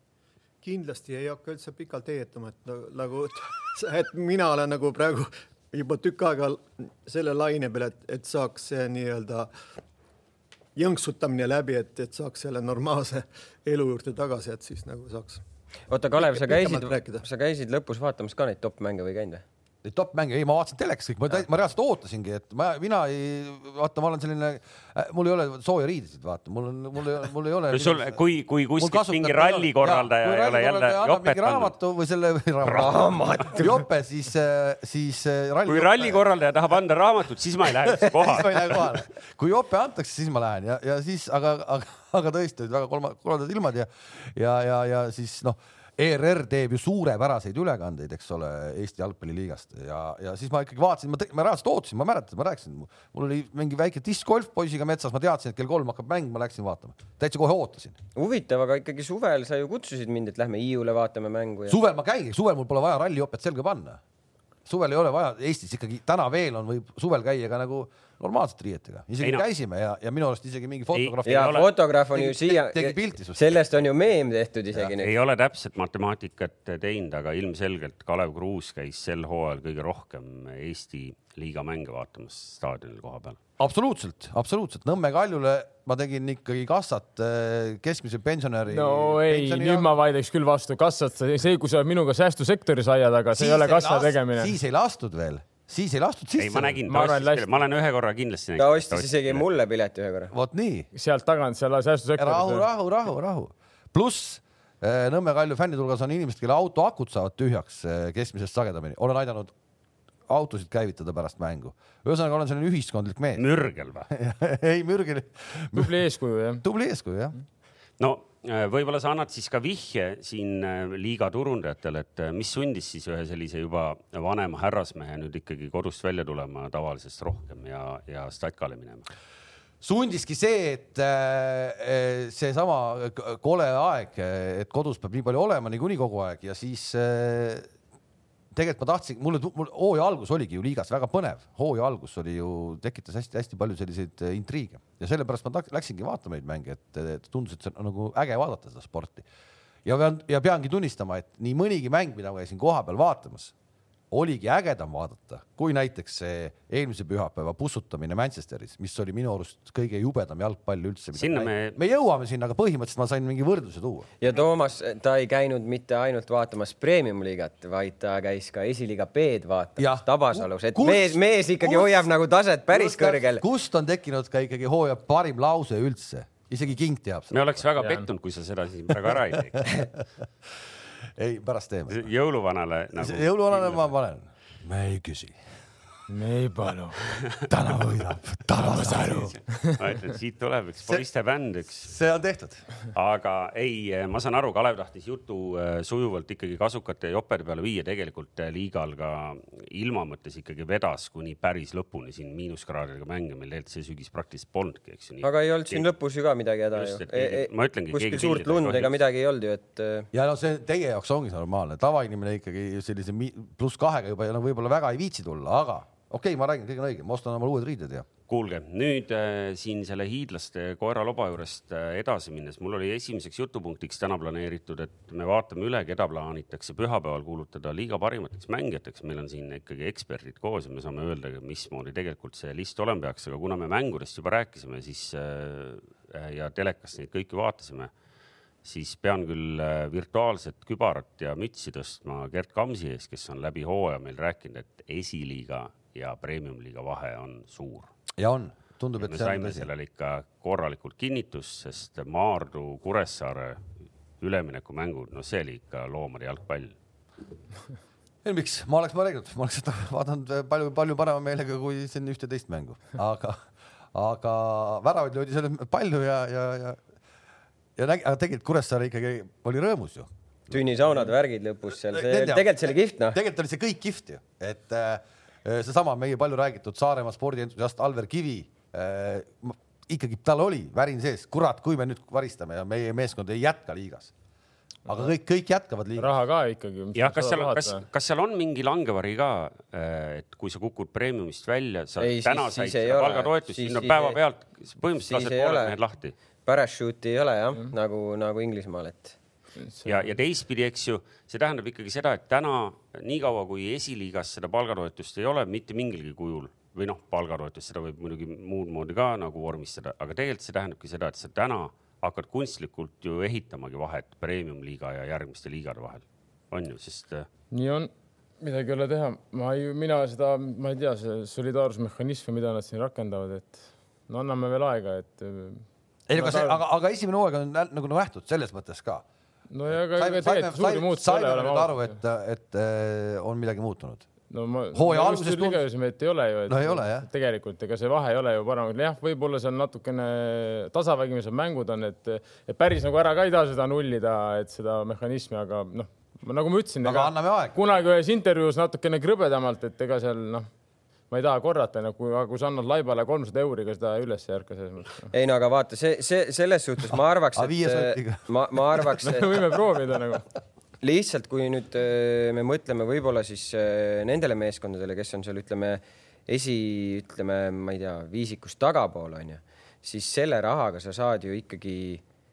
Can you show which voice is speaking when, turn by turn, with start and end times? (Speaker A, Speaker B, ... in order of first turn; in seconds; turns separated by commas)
Speaker A: 0.6-9.5, Speaker A: 10.8-15.4, Speaker B: 15.9-19.4, Speaker A: 16.2-17.2, Speaker C: 19.8-28.2, Speaker D: 27.7-31.7, Speaker C: 28.8-36.2, Speaker D: 32.6-32.9, Speaker B: 32.7-33.8, Speaker D: 35.7-38.9, Speaker C: 37.8-58.0, Speaker B: 58.2-61.8, Speaker C: 61.7-64.0, Speaker C: 64.7-73.6, Speaker D: 70.9-71.7, Speaker B: 71.2-75.1, Speaker D: 74.8-83.4, Speaker C: 83.6-89.9, Speaker E: 88.7-94.5, Speaker C: 93.3-96.8, Speaker D: 96.4-99.5, Speaker E: 96.9-97.5, Speaker B: 98.6-100.3, Speaker C: 100.3-100.9, Speaker E: 100.9-102.7, Speaker C: 102.2-109.5, Speaker C: 110.3-113.5, Speaker D: 113.4-114.1, Speaker C: 114.1-115.9, Speaker E: 115.7-116.6, Speaker C: 116.6-117.3, Speaker D: 118.0-129.1, Speaker C: 129.8-137.7, Speaker C: 138.5-149.3, Speaker C: 149.8-153.5, Speaker C: 154.1-164.1, Speaker D: 161.2-161.8, Speaker B: 164.2-173.4, Speaker C: 169.8-172.0, Speaker C: 172.7-177.3, Speaker D: 177.3-179.7, Speaker E: 177.8-178.1, Speaker C: 179.6-180.0, Speaker C: 181.2-182.0, Speaker D: 181.9-183.9, Speaker C: 183.0-185.4, Speaker E: 186.1-187.0, Speaker D: 187.1-187.4, Speaker C: 187.5-189.4, Speaker D: 188.9-191.9, Speaker C: 191.8-192.6, Speaker D: 192.9-205.9, Speaker B: 205.2-210.1, Speaker D: 206.7-209.0, Speaker C: 210.1-218.1, Speaker D: 218.3-237.9, Speaker D: 238.6-247.9, Speaker C: 248.2-249.7, Speaker D: 249.0-253.6, Speaker D: 254.2-256.8, Speaker C: 258.2-263.4, Speaker C: 263.9-266.8, Speaker C: 267.8-271.1, Speaker B: 270.5-273.2, Speaker C: 271.8-284.1, Speaker C: 284.9-286.1, Speaker E: 286.0-287.9, Speaker D: 287.0-296.1, Speaker B: 292.0-294.2, Speaker B: 295.1-295.7, Speaker B: 296.5-299.1, Speaker E: 299.6-300.1, Speaker D: 299.9-317.3, Speaker E: 317.5-325.6, Speaker C: 326.1-329.1, Speaker E: 326.1-326.6, Speaker E: 329.5-332.0, Speaker C: 329.7-334.1, Speaker E: 334.3-350.5, Speaker C: 334.7-335.6, Speaker C: 336.5-337.1, Speaker C: 346.8-347.6, Speaker E: 351.1-355.1, Speaker B: 355.1-359.4, Speaker C: 357.4-358.9, Speaker E: 359.0-360.2, Speaker B: 360.8-372.0